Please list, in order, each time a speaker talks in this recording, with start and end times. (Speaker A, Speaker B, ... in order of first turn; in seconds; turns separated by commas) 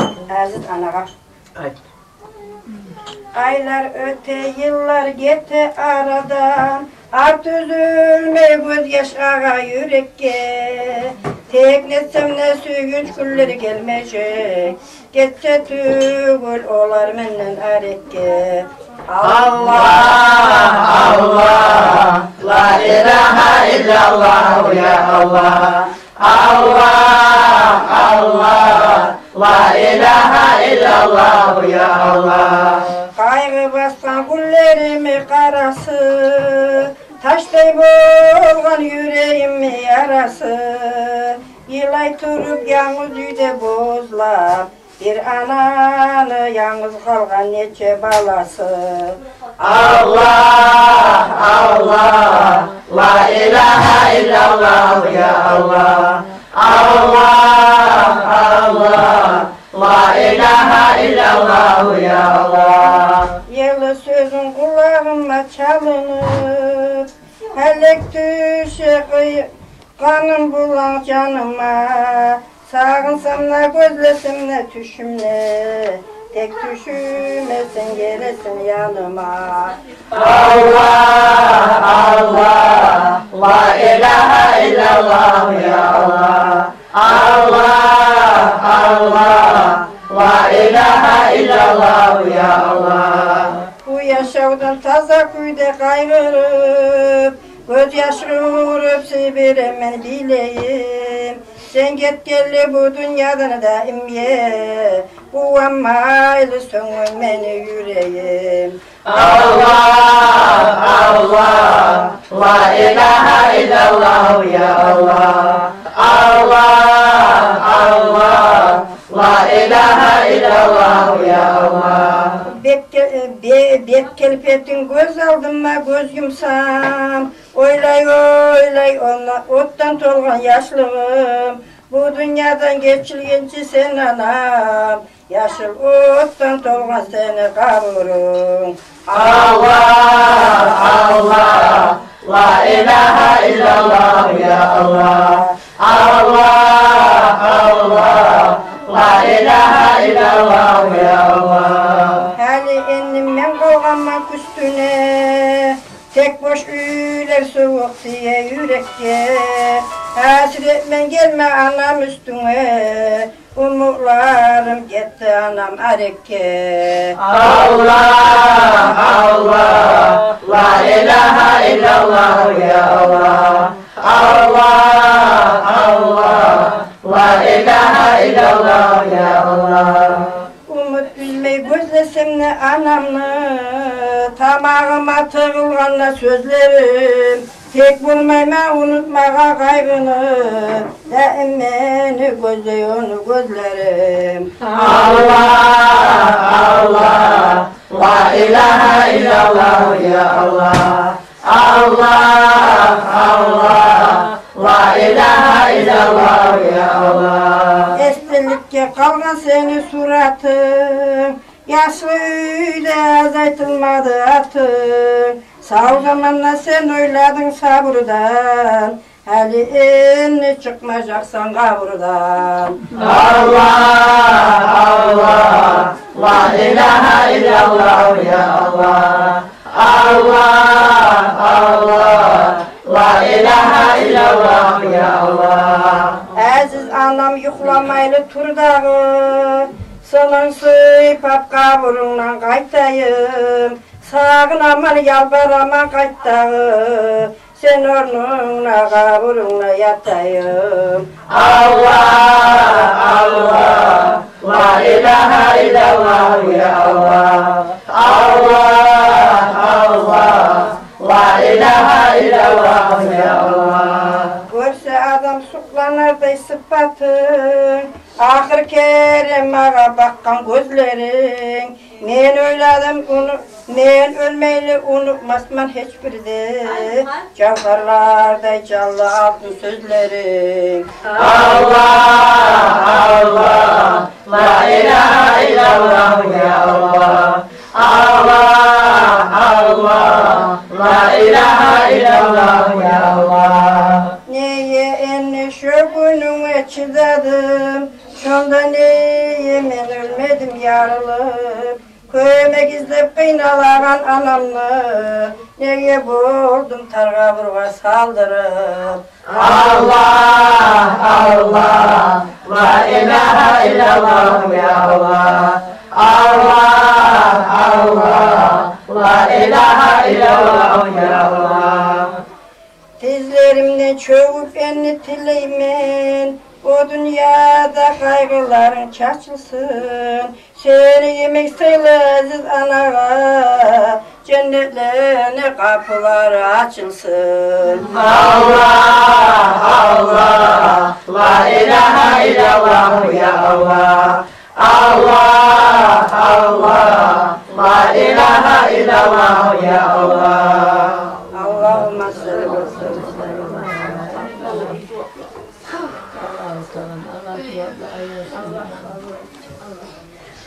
Speaker A: 0.3-1.1, Speaker A: 3.4-20.4, Speaker B: 19.2-33.0, Speaker A: 33.1-49.2, Speaker B: 49.6-63.4, Speaker A: 63.5-79.8, Speaker B: 80.1-93.7, Speaker A: 93.8-108.8, Speaker B: 109.0-122.4, Speaker A: 122.4-139.7, Speaker B: 139.1-152.3, Speaker A: 152.3-167.2, Speaker B: 167.2-180.4, Speaker A: 180.7-194.6, Speaker B: 194.6-207.9, Speaker A: 207.9-222.9, Speaker B: 222.9-236.3, Speaker A: 236.3-251.1, Speaker B: 251.3-264.4, Speaker A: 264.5-280.9, Speaker B: 281.0-294.2, Speaker A: 294.2-309.0, Speaker B: 309.2-322.2, Speaker A: 323.0-337.9, Speaker B: 337.9-351.2, Speaker A: 351.3-353.9, Speaker C: 352.4-354.9, Speaker C: 356.1-359.8